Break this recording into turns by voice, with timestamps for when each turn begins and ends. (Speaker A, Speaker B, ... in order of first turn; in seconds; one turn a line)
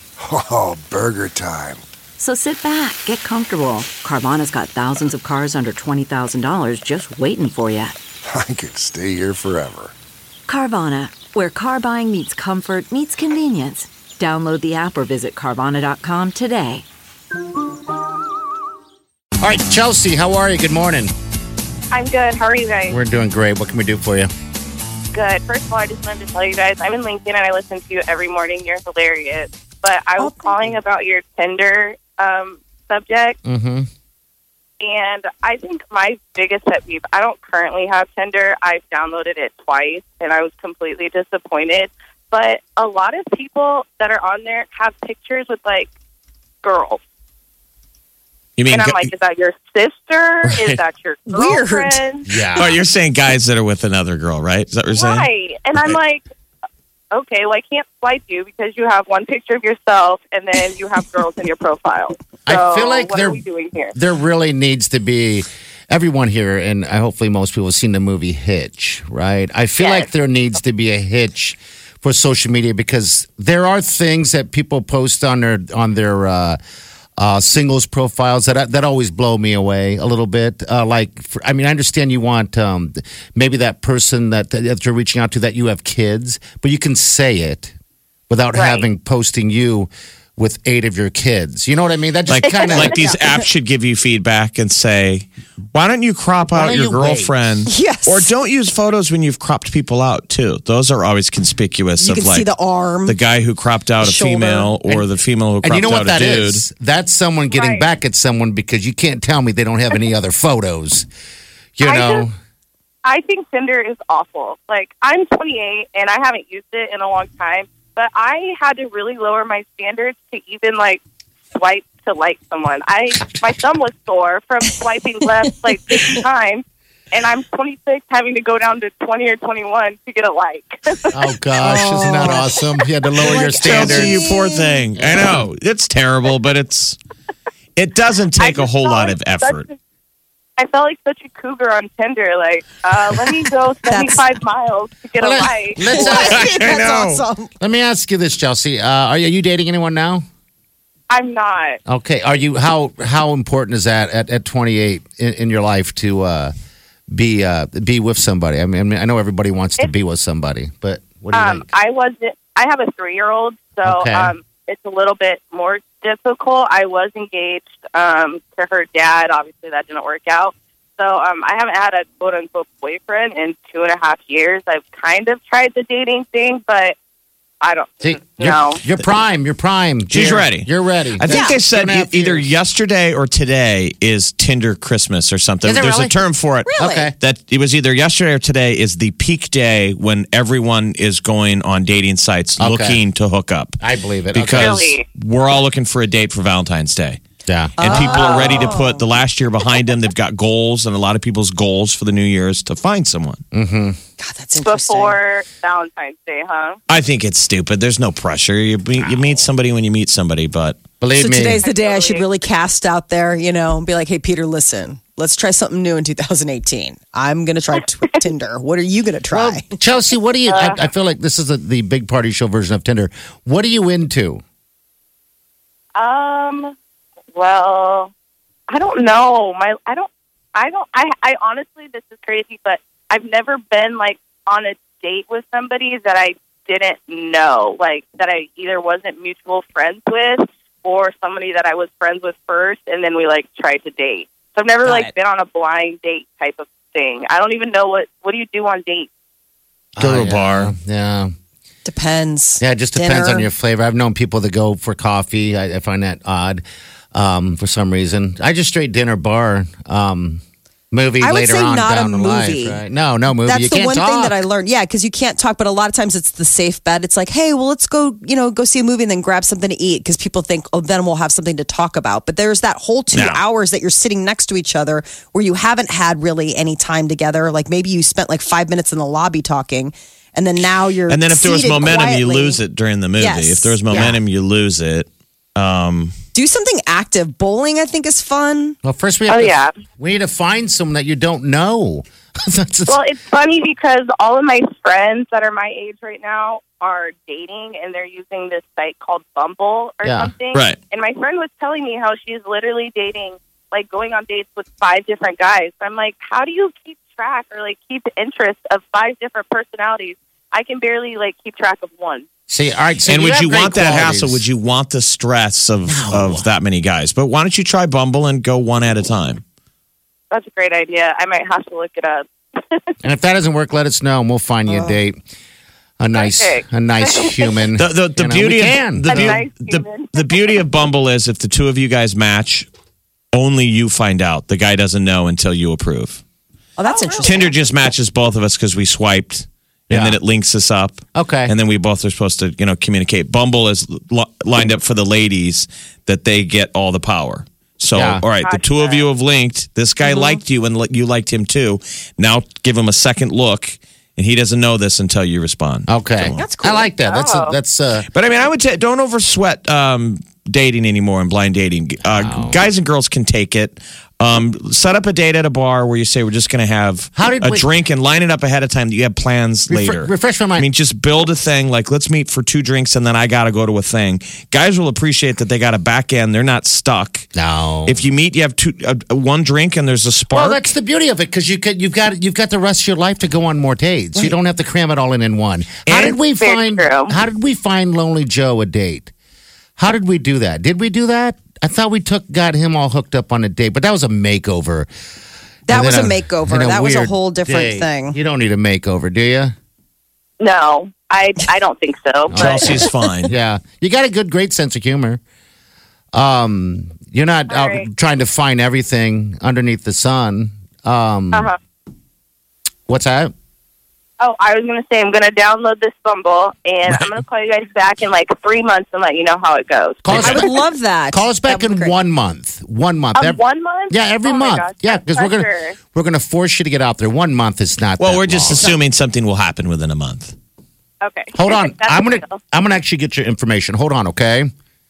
Speaker A: 0.2-1.9
Speaker B: 2.2-8.0
Speaker A: 8.2-9.9
Speaker B: 10.5-16.9
Speaker C: 19.4-21.1
Speaker D: 21.9-23.0
Speaker C: 22.9-24.3
Speaker D: 25.1-33.4
Speaker E: 30.2-30.8
Speaker C: 33.4-33.9
Speaker D: 34.8-45.9
Speaker D: 46.6-47.0
Speaker F: 48.6-49.1
Speaker D: 48.7-52.3
Speaker C: 50.4-50.8
Speaker E: 51.3-52.0
Speaker C: 52.2-52.8
Speaker F: 52.5-56.0
Speaker D: 54.9-56.2
Speaker D: 57.1-64.0
Speaker C: 62.5-63.4
Speaker C: 63.9-76.6
Speaker D: 69.8-70.1
Speaker C: 77.2-87.7
Speaker C: 88.3-93.0
Speaker D: 88.5-88.9
Speaker F: 92.3-102.5
Speaker E: 92.6-93.2
Speaker C: 96.5-97.4
Speaker E: 97.7-98.3
Speaker E: 102.0-103.2
Speaker F: 103.0-106.6
Speaker E: 104.0-104.7
Speaker C: 105.6-111.1
Speaker D: 107.5-107.9
Speaker C: 111.8-112.3
Speaker D: 111.8-112.3
Speaker D: 113.0-121.0
Speaker D: 121.5-131.1
Speaker E: 125.9-126.2
Speaker C: 131.1-134.2
Speaker E: 131.6-132.6
Speaker E: 133.2-134.8
Speaker F: 133.6-137.0
Speaker F: 137.8-139.7
Speaker D: 138.4-139.7
Speaker D: 140.6-146.0
Speaker E: 143.8-144.3
Speaker C: 145.2-146.5
Speaker E: 145.4-147.5
Speaker F: 145.9-147.2
Speaker C: 147.6-150.2
Speaker D: 151.1-151.8
Speaker C: 151.9-156.5
Speaker C: 157.1-161.7
Speaker D: 161.3-176.9
Speaker C: 163.8-164.3
Speaker D: 177.6-178.8
Speaker C: 178.0-182.5
Speaker F: 180.1-193.8
Speaker E: 181.3-181.6
Speaker C: 185.6-186.2
Speaker E: 186.7-187.1
Speaker C: 186.8-187.1
Speaker C: 192.6-193.0
Speaker C: 193.8-194.8
Speaker F: 194.3-197.2
Speaker D: 194.6-195.0
Speaker C: 197.5-198.6
Speaker E: 197.8-199.0
Speaker F: 197.8-203.4
Speaker C: 203.5-204.0
Speaker E: 204.2-205.2
Speaker D: 204.6-206.8
Speaker F: 206.9-210.8
Speaker C: 211.0-211.6
Speaker E: 211.2-219.7
Speaker D: 211.6-212.3
Speaker C: 219.3-224.4
Speaker D: 220.5-220.8
Speaker D: 225.9-226.7
Speaker D: 227.3-228.1
Speaker D: 228.7-249.1
Speaker E: 244.8-245.1
Speaker F: 250.0-250.7
Speaker C: 250.0-251.3
Speaker E: 251.8-253.5
Speaker C: 252.6-256.6
Speaker C: 257.1-264.4
Speaker E: 261.2-262.8
Speaker E: 263.4-282.6
Speaker F: 273.1-273.4
Speaker F: 281.1-286.1
Speaker E: 283.2-284.2
Speaker E: 286.3-288.8
Speaker C: 288.8-293.0
Speaker D: 289.3-289.7
Speaker D: 292.9-312.2
Speaker C: 300.0-300.3
Speaker F: 300.5-300.8
Speaker C: 312.5-314.4
Speaker F: 313.1-319.4
Speaker C: 315.9-316.5
Speaker D: 320.3-322.9
Speaker C: 323.0-325.2
Speaker E: 324.7-324.9
Speaker C: 326.0-329.4
Speaker D: 326.1-327.6
Speaker F: 327.8-332.7
Speaker D: 329.1-330.4
Speaker F: 333.3-336.2
Speaker E: 336.8-337.5
Speaker D: 336.9-337.2
Speaker F: 337.1-356.4
Speaker C: 339.9-340.2
Speaker C: 341.1-341.5
Speaker C: 347.9-348.2
Speaker D: 348.4-349.1
Speaker E: 350.0-350.4
Speaker C: 355.9-358.1
Speaker E: 356.4-356.9
Speaker D: 357.0-357.6
Speaker F: 358.1-377.3
Speaker C: 362.0-362.6
Speaker C: 367.1-367.7
Speaker C: 369.7-370.7
Speaker C: 377.3-378.0
Speaker F: 377.9-380.7
Speaker C: 380.3-389.1
Speaker F: 385.9-386.2
Speaker D: 386.4-387.1
Speaker C: 389.8-394.9
Speaker E: 395.7-398.2
Speaker C: 395.7-399.5
Speaker D: 400.4-402.7
Speaker C: 402.3-405.2
Speaker F: 402.3-403.3
Speaker C: 406.1-411.5
Speaker D: 407.5-407.9
Speaker D: 411.3-411.6
Speaker C: 412.9-413.3
Speaker D: 414.2-420.6
Speaker C: 420.0-420.5
Speaker E: 420.1-421.9
Speaker C: 421.1-428.7
Speaker D: 423.1-425.8
Speaker F: 428.0-430.4
Speaker D: 431.0-432.4
Speaker C: 431.3-434.5